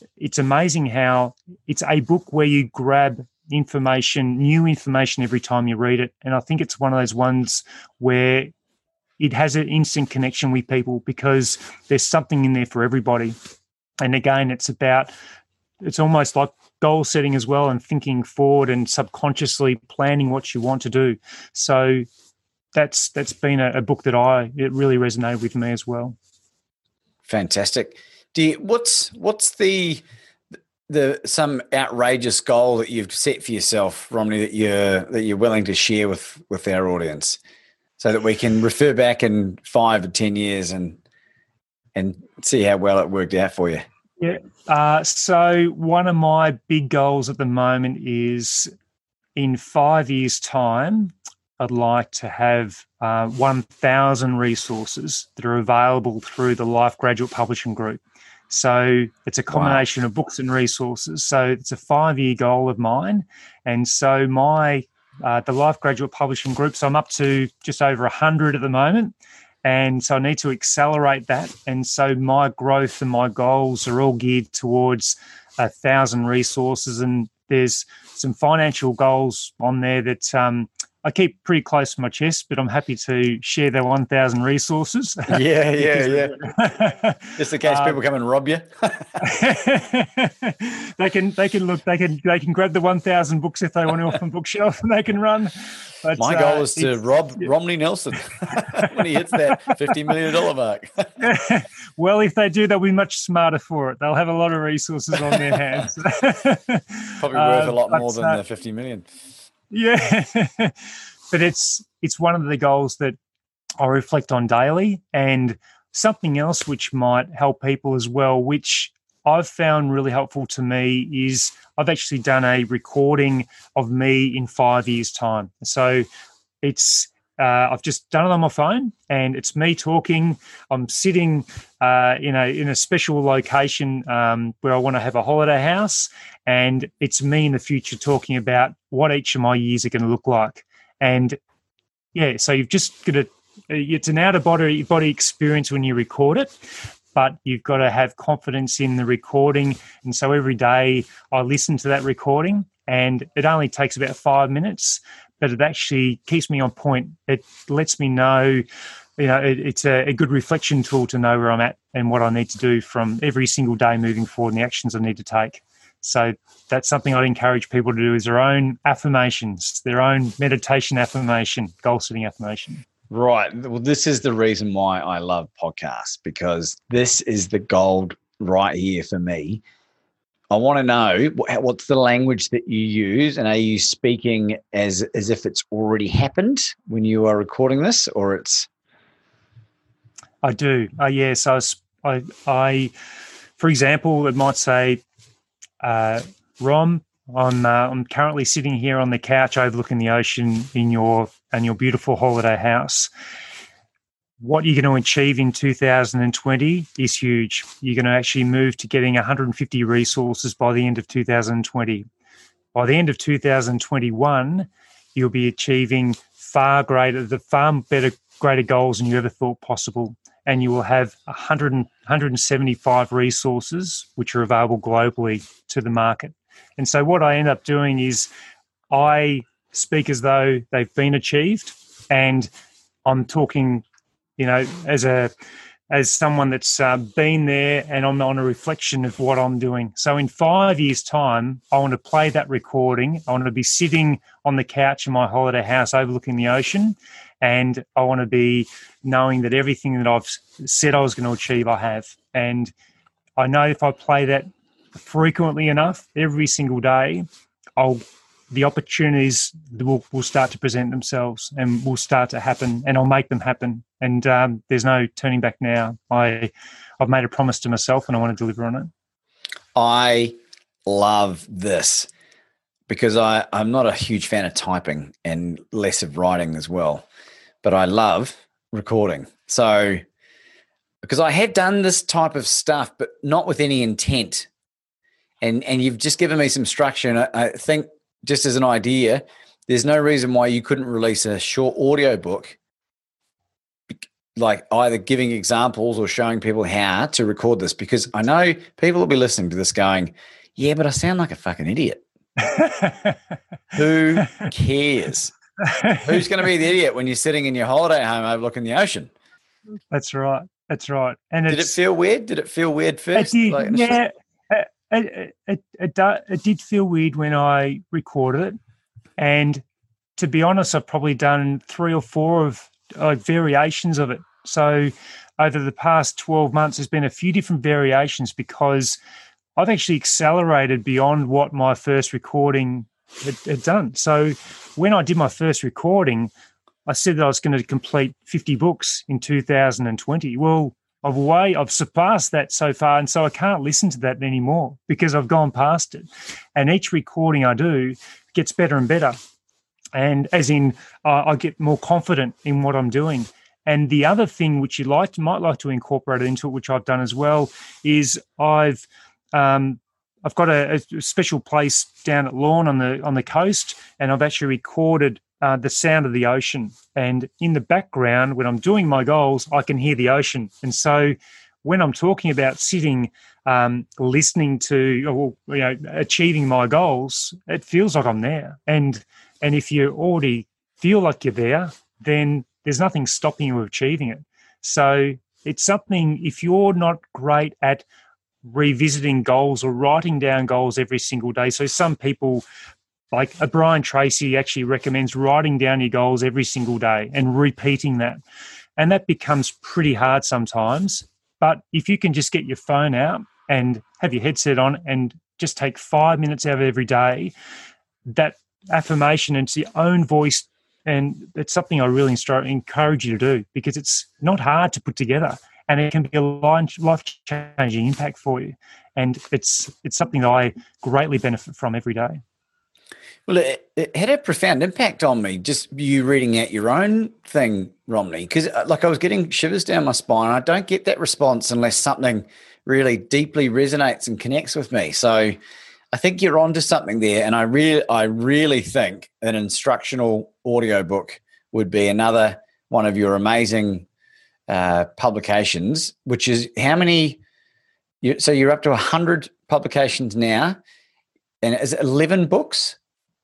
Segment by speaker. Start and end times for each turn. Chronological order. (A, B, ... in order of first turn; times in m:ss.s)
0:00.2-0:08.5 A
0:09.2-0:13.4 A
0:14.0-0:15.1 A
0:15.8-0:22.1 A
0:22.7-0:26.2 A
0:27.3-0:30.0 B
0:30.9-0:37.4 B
0:38.0-0:41.0 B
0:42.0-0:43.8 B
0:44.2-0:48.7 A
0:49.4-1:28.0 A
0:59.5-0:59.8 B
1:25.3-1:26.4 B
1:27.4-1:29.2 B
1:29.2-1:37.5 A
1:36.2-1:41.2 B
1:38.5-1:39.1 A
1:41.2-1:48.4 A
1:47.2-1:49.1 B
1:49.7-1:50.8 A
1:51.3-1:53.2 A
1:53.8-2:06.1 A
2:06.6-2:21.4 A
2:22.1-2:26.6 A
2:27.2-2:38.6 A
2:39.2-2:52.8 A
2:53.1-2:59.6 B
3:00.5-3:08.7 B
3:10.4-3:12.9 A
3:13.6-3:15.0 A
3:15.8-3:23.1 A
3:24.4-3:32.1 A
3:32.8-3:48.3 A
3:48.9-3:52.5 A
3:53.1-3:53.8 A
3:54.4-3:55.3 A
3:55.9-4:12.7 A
4:13.4-4:17.3 A
4:17.8-4:28.9 A
4:29.8-4:32.1 B
4:32.9-4:37.0 B
4:37.6-4:40.0 B
4:41.0-4:44.5 B
4:45.4-4:52.6 B
4:53.9-5:02.0 B
5:02.4-5:03.2 A
5:03.7-5:05.4 B
5:05.6-5:06.2 A
5:05.9-5:09.1 B
5:09.9-5:11.8 A
5:11.5-5:14.0 B
5:13.1-5:18.6 A
5:19.2-5:19.6 A
5:20.2-5:29.0 A
5:29.6-5:36.3 A
5:36.9-5:49.2 A
5:49.9-6:27.8 A
6:28.4-6:32.4 A
6:33.1-6:38.2 A
6:38.8-6:47.3 A
6:48.1-7:02.2 A
7:03.3-7:15.4 B
7:15.9-7:23.9 B
7:24.5-7:27.2 B
7:28.0-7:30.6 B
7:31.4-7:32.8 B